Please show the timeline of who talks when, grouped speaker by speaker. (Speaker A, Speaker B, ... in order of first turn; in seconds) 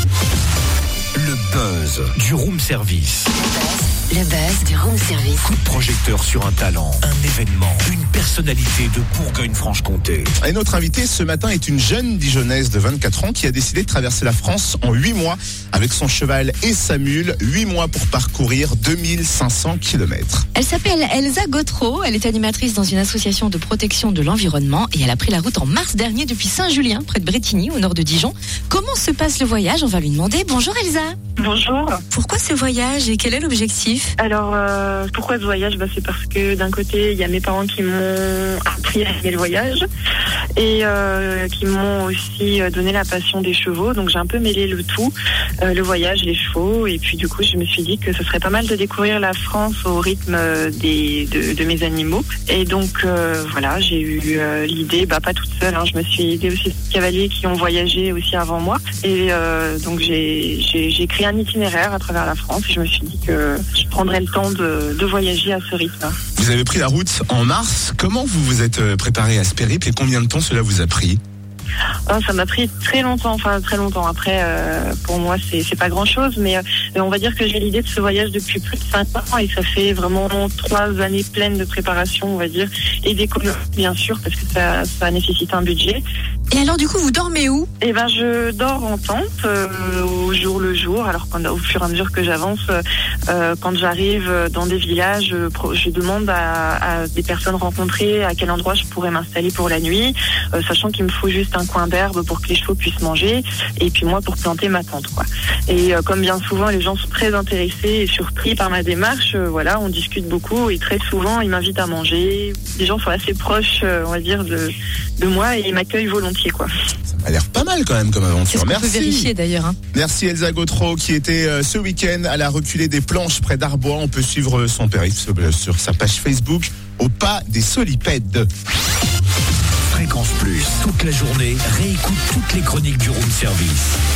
Speaker A: 1.1-3.3, 5.4-10.3, 129.9-134.0
Speaker B: 3.4-5.4
Speaker C: 10.4-20.4, 66.4-71.2, 117.1-119.3, 119.9-128.5
Speaker D: 20.5-31.2, 32.1-34.1, 86.5-87.7, 118.5-119.8
Speaker E: 31.4-32.0, 34.2-39.8, 40.6-66.2, 72.1-86.0, 87.8-116.7